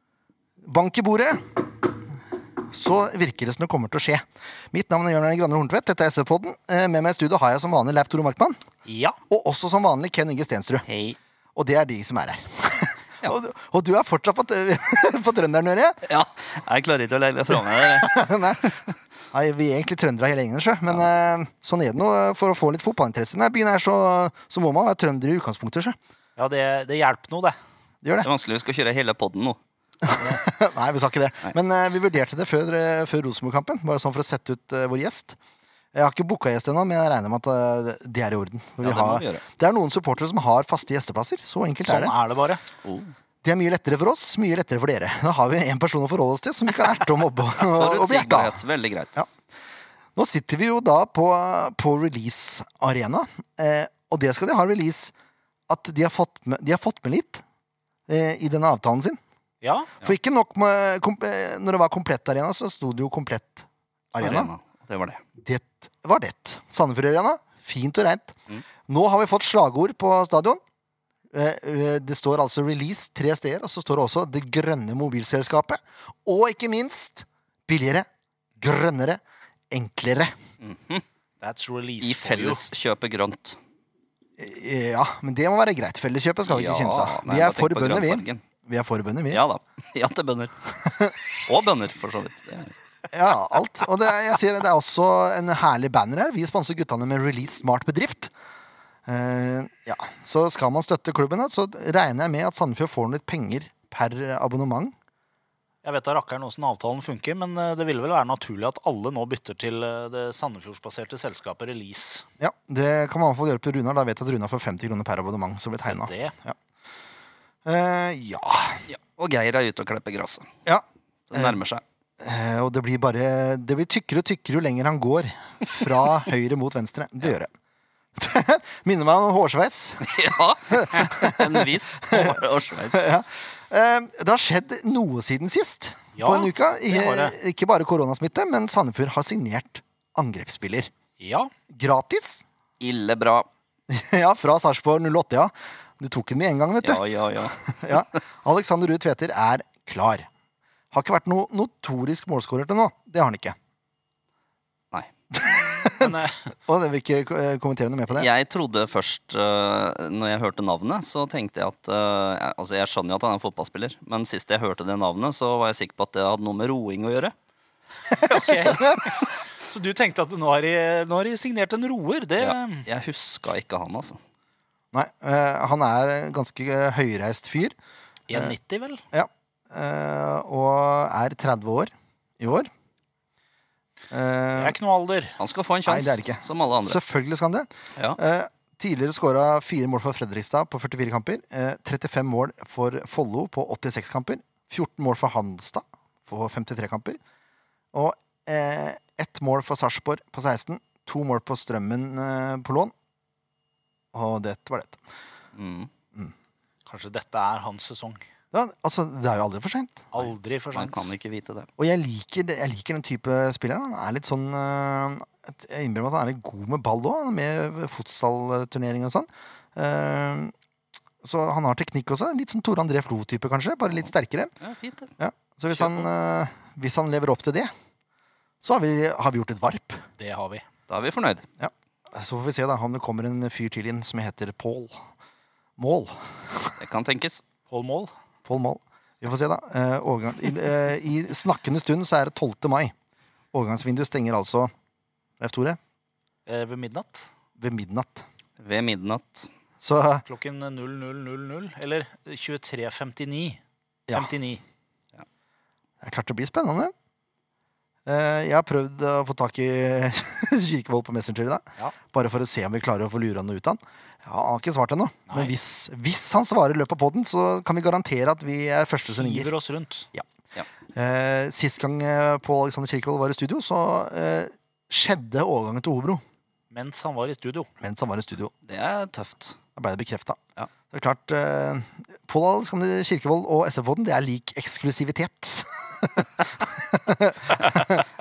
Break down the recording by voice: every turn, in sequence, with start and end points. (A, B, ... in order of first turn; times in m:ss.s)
0:00.6-0:01.6 A
0:02.6-0:08.6 A
0:08.8-0:09.2 B
0:09.3-0:10.8 A
0:10.9-0:11.2 C
0:11.6-0:16.0 A
0:16.1-0:18.9 C
0:17.5-0:18.7 A
0:19.3-0:26.0 A
0:26.4-0:27.6 B
0:28.0-0:28.3 A
0:28.2-0:29.6 C
0:30.0-0:35.4 A
0:35.9-0:42.1 A
0:38.8-0:39.4 C
0:41.8-0:42.6 B
0:42.8-0:43.1 C
0:43.4-0:48.6 A
0:47.6-0:49.2 C
0:50.2-0:55.1 A
0:55.7-0:57.4 A
0:58.1-0:59.2 A
0:59.6-0:59.9 B
1:00.0-1:04.5 A
1:04.2-1:05.2 C
1:05.4-1:10.6 A
1:11.3-1:18.1 A
1:18.6-1:20.3 A
1:20.6-1:21.0 C
1:21.4-1:22.6 B
1:22.0-1:23.6 C
1:24.4-1:29.4 A
1:26.4-1:28.4 C
1:29.3-1:32.7 C
1:30.8-1:31.1 A
1:33.1-1:38.3 A
1:39.0-1:44.9 A
1:45.8-1:52.2 B
1:52.4-1:56.6 A
1:55.8-1:56.3 B
1:57.6-1:58.8 A
1:58.9-2:00.5 C
2:00.6-2:01.6 A
2:01.3-2:01.8 C
2:02.2-2:07.5 A
2:08.2-2:20.9 A
2:10.0-2:13.0 C
2:16.2-2:17.3 B
2:21.2-2:21.5 B
2:21.7-2:22.4 A
2:22.8-2:23.5 C
2:23.9-2:30.3 A
2:26.8-2:28.0 C
2:30.9-2:33.6 A
2:35.3-2:38.3 A
2:36.0-2:36.4 B
2:38.1-2:47.3 C
2:48.1-2:49.0 A
2:48.2-2:52.8 B
2:52.4-2:54.2 C
2:54.9-2:57.7 A
2:58.3-2:59.0 B
2:59.1-3:02.7 A
3:04.1-3:04.8 A
3:04.6-3:05.4 B
3:05.4-3:07.0 C
3:05.9-3:17.2 A
3:17.9-3:22.9 A
3:24.1-3:25.0 A
3:25.5-3:25.9 C
3:26.9-3:28.2 B
3:28.5-3:30.1 A
3:30.1-3:31.0 B
3:30.7-3:31.7 C
3:31.8-3:40.5 A
3:41.2-3:44.5 A
3:44.0-3:45.1 C
3:45.2-3:47.7 A
3:48.6-3:50.0 A
3:50.2-3:50.6 B
3:50.9-3:51.4 C
3:51.6-3:55.0 A
3:55.8-3:56.8 A
3:56.8-3:57.4 C
3:57.7-3:58.1 B
3:58.4-4:02.9 A
4:03.5-4:04.7 A
4:05.4-4:05.8 A
4:06.4-4:07.2 B
4:07.6-4:08.2 A
4:08.6-4:09.5 C
4:09.8-4:10.2 A
4:10.3-4:13.6 B
4:14.1-4:14.3 A
4:14.1-4:14.6 B
4:16.0-4:16.9 A
4:18.0-4:29.5 A
4:25.3-4:25.5 B
4:29.2-4:30.1 B
4:30.9-4:36.2 A
4:36.7-4:37.7 B
4:37.8-4:38.5 A
4:38.7-4:39.6 C
4:39.8-4:40.4 A
4:40.9-4:48.0 A